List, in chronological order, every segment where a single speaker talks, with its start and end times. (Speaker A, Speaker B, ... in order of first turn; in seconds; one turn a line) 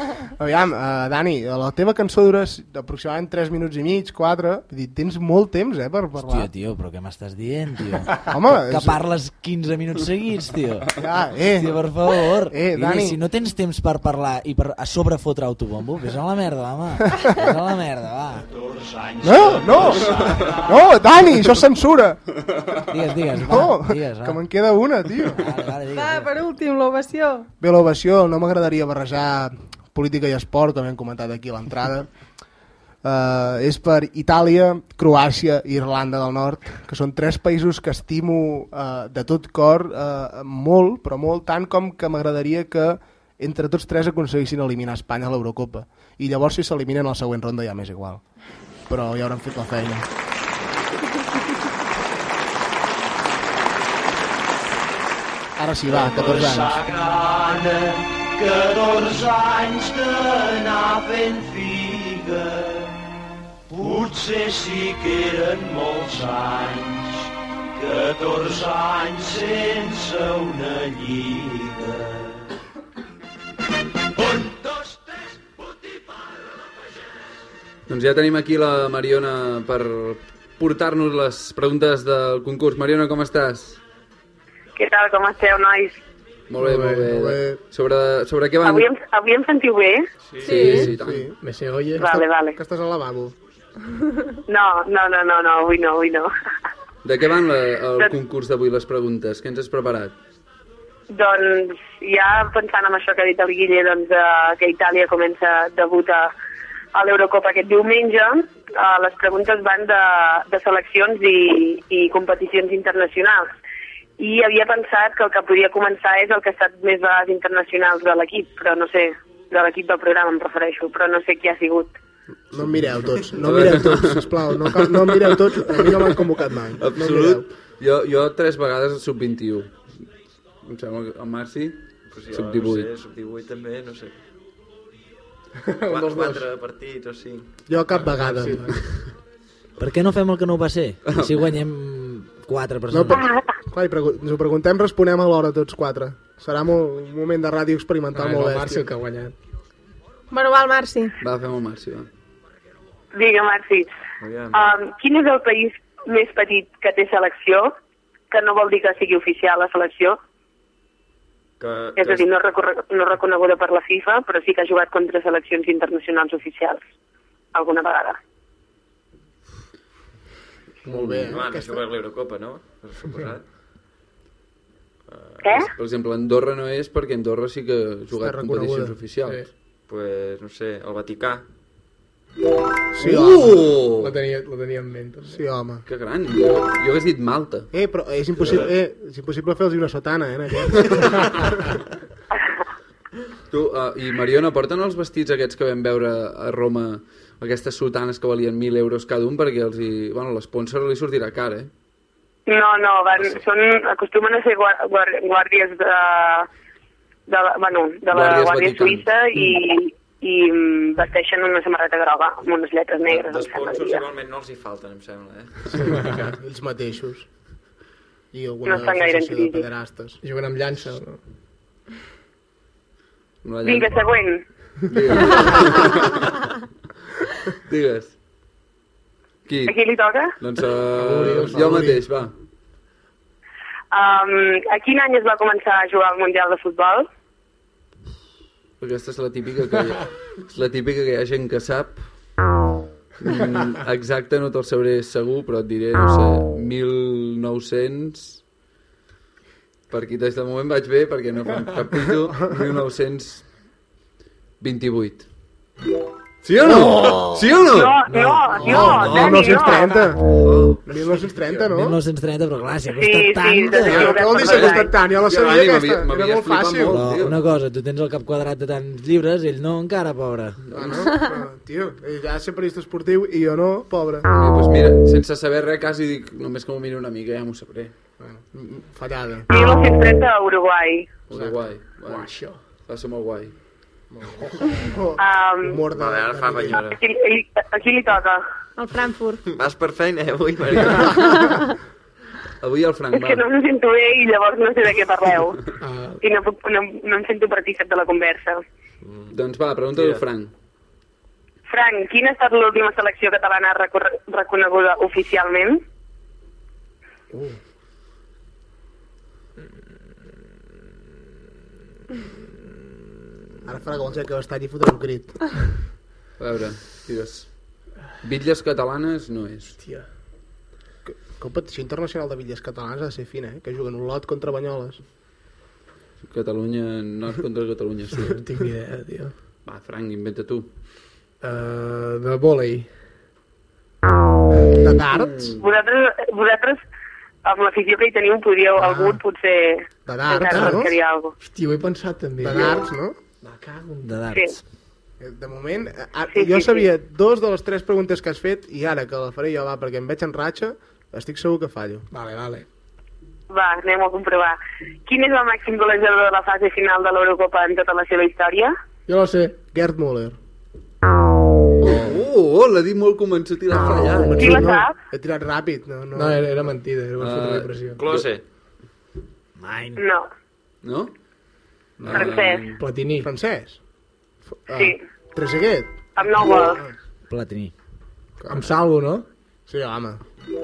Speaker A: 0.4-6.5
Speaker B: 6.2-18.5
Speaker A: 8.3-9.0
Speaker A: 11.0-12.0
Speaker A: 12.5-13.2
Speaker C: 18.5-20.9
Speaker A: 19.2-22.3
Speaker B: 22.9-24.4
Speaker A: 23.4-25.4
Speaker B: 25.4-26.3
Speaker D: 25.9-27.5
Speaker A: 27.6-32.2
Speaker A: 33.0-48.2
Speaker A: 48.9-50.1
Speaker A: 55.6-56.8
Speaker C: 55.9-62.9
Speaker C: 63.7-72.4
Speaker C: 74.2-75.7
Speaker E: 77.9-83.8
Speaker F: 84.8-86.0
Speaker E: 86.5-88.9
Speaker G: 86.6-87.1
Speaker A: 87.1-87.6
Speaker F: 88.6-90.1
Speaker H: 90.2-90.7
Speaker D: 90.4-90.9
Speaker G: 90.5-92.1
Speaker E: 90.5-91.3
Speaker A: 90.7-91.4
Speaker F: 92.0-92.6
Speaker A: 92.5-93.3
Speaker F: 94.5-96.3
Speaker E: 97.0-100.1
Speaker F: 101.1-106.3
Speaker F: 106.9-113.5
Speaker F: 114.2-121.9
Speaker A: 122.5-127.4
Speaker E: 123.4-126.2
Speaker E: 126.8-129.7
Speaker E: 130.6-132.9
Speaker H: 132.1-134.2
Speaker G: 135.7-136.4
Speaker H: 135.9-137.5
Speaker A: 137.7-138.7
Speaker G: 138.1-138.8
Speaker B: 139.8-143.3
Speaker E: 141.1-141.4
Speaker A: 142.9-148.9
Speaker G: 148.1-149.3
Speaker D: 150.3-151.2
Speaker E: 151.2-152.1
Speaker F: 153.1-153.9
Speaker H: 154.2-154.6
Speaker F: 154.5-157.7
Speaker F: 158.3-160.2
Speaker H: 161.6-162.3
Speaker F: 161.9-166.8
Speaker F: 167.5-168.2
Speaker A: 170.8-171.9
Speaker E: 170.9-171.4
Speaker H: 171.0-173.4
Speaker H: 175.1-175.7
Speaker F: 175.4-175.7
Speaker E: 175.8-179.4
Speaker A: 178.1-178.9
Speaker H: 179.9-181.4
Speaker A: 182.9-183.7
Speaker E: 183.0-184.1
Speaker G: 183.8-185.4
Speaker A: 185.3-185.8
Speaker E: 185.8-187.7
Speaker A: 187.7-191.8
Speaker E: 193.5-201.7
Speaker F: 202.5-206.5
Speaker H: 203.2-203.4
Speaker F: 207.3-214.0
Speaker E: 208.1-209.4
Speaker H: 213.1-216.1
Speaker A: 215.8-217.3
Speaker G: 215.9-216.3
Speaker A: 218.3-220.2
Speaker F: 218.6-219.7
Speaker G: 220.2-221.2
Speaker E: 223.4-224.1
Speaker F: 223.6-224.4
Speaker E: 224.9-226.4
Speaker E: 227.6-228.1
Speaker E: 229.5-229.8
Speaker F: 229.7-230.4
Speaker E: 230.4-232.3
Speaker G: 230.9-232.1
Speaker F: 233.9-237.1
Speaker E: 238.8-242.0
Speaker E: 243.2-248.4
Speaker E: 249.9-253.5
Speaker E: 254.6-255.2
Speaker E: 256.4-258.0
Speaker A: 256.6-257.4
Speaker F: 257.7-260.1
Speaker B: 258.1-259.4
Speaker A: 258.5-262.0
Speaker E: 258.6-259.7
Speaker E: 260.4-260.8
Speaker B: 261.7-264.3
Speaker F: 263.0-264.9
Speaker A: 263.7-267.1
Speaker E: 264.3-267.4
Speaker B: 266.9-270.6
Speaker E: 270.6-271.1
Speaker A: 270.7-274.3
Speaker E: 274.4-277.9
Speaker A: 278.2-279.4
Speaker F: 279.5-281.2
Speaker E: 281.3-283.5
Speaker A: 281.3-281.6
Speaker G: 282.0-282.6
Speaker A: 284.1-286.8
Speaker F: 285.2-285.8
Speaker H: 285.9-287.0
Speaker F: 286.9-288.4
Speaker D: 288.8-289.4
Speaker H: 289.5-291.3
Speaker E: 292.6-293.4
Speaker F: 293.1-295.6
Speaker G: 295.8-296.2
Speaker F: 296.2-298.6
Speaker E: 299.3-300.5
Speaker F: 301.7-305.8
Speaker A: 313.6-315.8
Speaker E: 316.4-319.8
Speaker G: 319.8-320.1
Speaker A: 321.1-325.0
Speaker E: 326.2-328.4
Speaker G: 328.2-329.3
Speaker E: 329.6-330.7
Speaker G: 331.4-332.9
Speaker A: 334.8-335.6
Speaker F: 335.6-336.8
Speaker F: 337.4-341.4
Speaker G: 338.8-339.1
Speaker A: 340.1-340.9
Speaker G: 340.5-340.8
Speaker G: 341.4-342.8
Speaker A: 342.4-343.2
Speaker G: 343.4-344.2
Speaker B: 344.0-344.6
Speaker A: 345.2-352.1
Speaker F: 346.3-346.9
Speaker G: 352.1-352.6
Speaker F: 353.5-358.7
Speaker G: 359.1-359.6
Speaker A: 359.7-360.4
Speaker E: 361.8-364.6
Speaker F: 364.3-364.9
Speaker A: 364.4-366.5
Speaker G: 366.1-368.0
Speaker E: 367.2-368.3
Speaker H: 368.0-368.4
Speaker B: 369.6-370.0
Speaker F: 369.9-370.2
Speaker E: 370.8-371.1
Speaker A: 372.0-372.4
Speaker E: 372.0-372.8
Speaker F: 372.1-372.7
Speaker G: 372.8-373.3
Speaker A: 373.2-373.8
Speaker A: 374.7-376.9
Speaker F: 374.7-375.0
Speaker F: 376.1-376.8
Speaker B: 377.3-377.7
Speaker A: 378.4-378.7
Speaker G: 378.5-379.2
Speaker A: 379.7-380.2